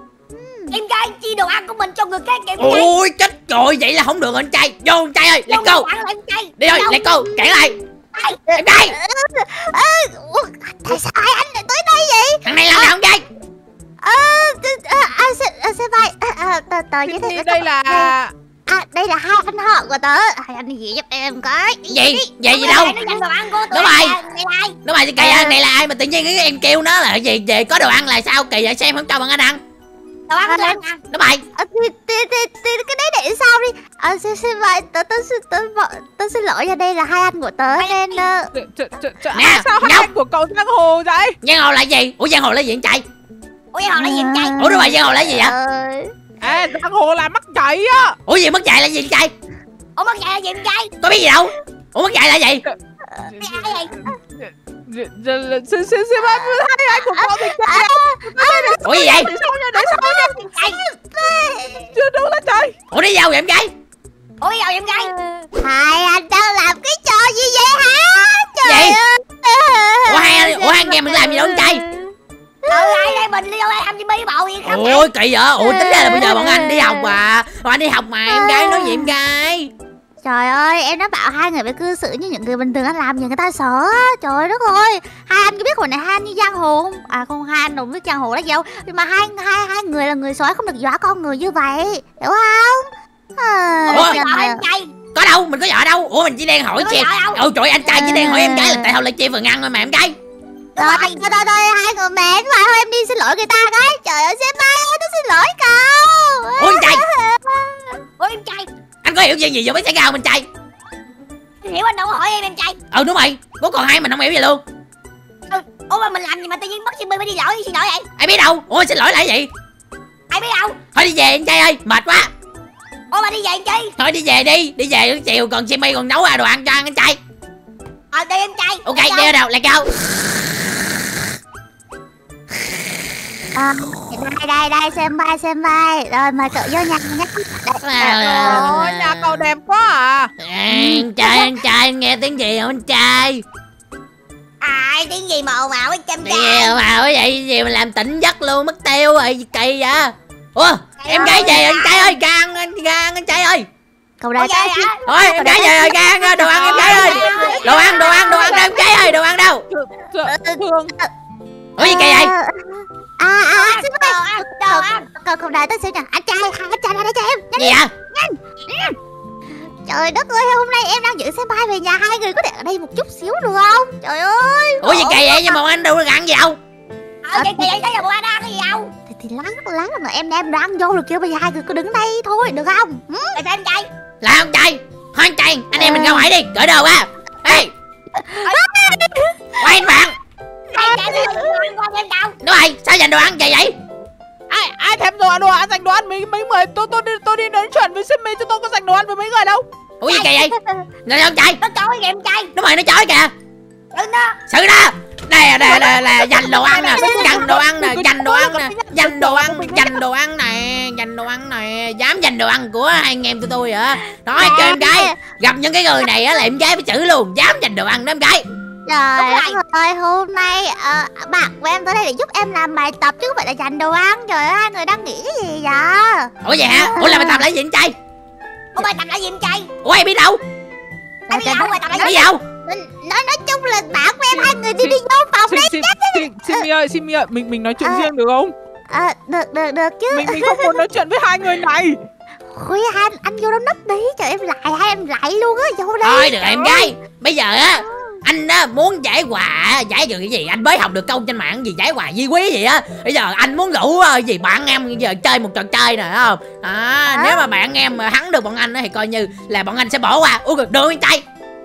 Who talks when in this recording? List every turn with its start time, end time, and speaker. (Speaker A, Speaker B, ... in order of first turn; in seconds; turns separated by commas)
Speaker A: 0.3-0.8, Speaker B: 0.7-2.9, Speaker C: 2.6-5.9, Speaker B: 5.5-7.0, Speaker C: 6.6-7.8, Speaker A: 6.8-7.8, Speaker B: 8.1-8.4, Speaker A: 8.5-12.9, Speaker C: 8.5-9.0, Speaker C: 12.4-13.3, Speaker A: 14.0-18.1, Speaker D: 17.1-18.3, Speaker A: 18.7-23.2, Speaker C: 21.9-22.9, Speaker B: 22.5-24.8, Speaker C: 23.7-24.2, Speaker C: 24.8-29.6, Speaker A: 25.2-25.6, Speaker B: 30.3-31.0, Speaker A: 30.5-30.8, Speaker C: 31.1-31.4, Speaker A: 31.6-38.5, Speaker B: 37.8-38.2, Speaker D: 38.5-41.4, Speaker C: 39.3-40.1, Speaker C: 41.4-43.0, Speaker B: 43.7-44.6, Speaker A: 44.0-46.3, Speaker C: 44.6-45.5, Speaker D: 46.4-48.2, Speaker C: 48.3-49.3, Speaker B: 50.0-50.9, Speaker C: 51.0-52.6, Speaker D: 53.3-60.3, Speaker B: 53.4-53.9, Speaker A: 56.2-62.0, Speaker C: 58.8-59.3, Speaker B: 59.9-60.8, Speaker D: 61.9-62.7, Speaker C: 62.9-63.7, Speaker B: 64.4-65.1, Speaker A: 65.5-73.2, Speaker C: 68.7-69.0, Speaker C: 70.1-71.8, Speaker B: 72.7-75.1, Speaker C: 74.7-79.7, Speaker A: 75.6-77.2, Speaker A: 78.3-79.1, Speaker A: 80.2-94.6, Speaker B: 93.9-94.9, Speaker C: 93.9-94.2, Speaker C: 95.1-100.2, Speaker B: 96.8-97.4, Speaker A: 97.8-98.9, Speaker B: 100.8-101.2, Speaker A: 100.8-108.0, Speaker C: 106.6-107.0, Speaker B: 108.2-108.7, Speaker C: 109.0-110.5, Speaker B: 111.6-112.8, Speaker C: 112.9-114.6, Speaker B: 115.5-118.1, Speaker C: 118.2-119.5, Speaker B: 120.3-120.8, Speaker C: 121.0-122.3, Speaker B: 123.1-123.9, Speaker C: 124.0-127.2, Speaker B: 128.1-129.3, Speaker C: 128.9-129.9, Speaker A: 133.6-138.7, Speaker C: 137.8-139.4, Speaker D: 138.0-140.3, Speaker C: 140.4-143.4, Speaker A: 140.7-141.6, Speaker B: 144.6-146.8, Speaker C: 146.2-153.7, Speaker B: 151.0-152.1, Speaker A: 151.1-151.6, Speaker A: 154.2-158.8, Speaker B: 154.4-155.0, Speaker C: 155.1-159.7, Speaker D: 156.5-157.6, Speaker B: 156.7-158.8, Speaker D: 159.7-160.9, Speaker A: 160.2-161.1, Speaker C: 161.8-162.3, Speaker A: 161.8-168.9, Speaker B: 163.5-165.1, Speaker C: 167.6-167.9, Speaker A: 169.6-175.6, Speaker C: 174.8-176.6, Speaker B: 177.2-178.9, Speaker A: 177.3-177.7, Speaker A: 179.1-183.4, Speaker B: 183.3-183.9, Speaker C: 184.2-187.7, Speaker A: 185.8-186.3, Speaker A: 188.1-189.8, Speaker D: 188.4-188.9, Speaker C: 189.6-190.2, Speaker A: 190.7-191.6, Speaker B: 190.7-192.4, Speaker C: 192.4-193.8, Speaker D: 194.5-199.6, Speaker C: 200.0-200.5, Speaker B: 200.1-200.3, Speaker C: 201.1-201.6, Speaker B: 201.6-202.5, Speaker C: 202.5-203.3, Speaker B: 203.9-204.4, Speaker C: 204.5-218.4, Speaker B: 206.4-207.5, Speaker A: 207.0-207.3, Speaker D: 207.0-209.3, Speaker A: 214.3-215.2, Speaker A: 218.9-227.5, Speaker B: 219.2-219.6, Speaker C: 226.4-227.9, Speaker B: 228.8-229.7, Speaker C: 229.8-230.4, Speaker B: 231.3-232.3, Speaker A: 231.3-236.7, Speaker C: 232.0-232.4, Speaker D: 234.3-238.5, Speaker A: 237.8-238.1, Speaker A: 238.9-240.8, Speaker D: 240.1-242.0, Speaker A: 242.5-247.0, Speaker C: 246.0-261.2, Speaker A: 247.8-248.2, Speaker A: 257.1-257.4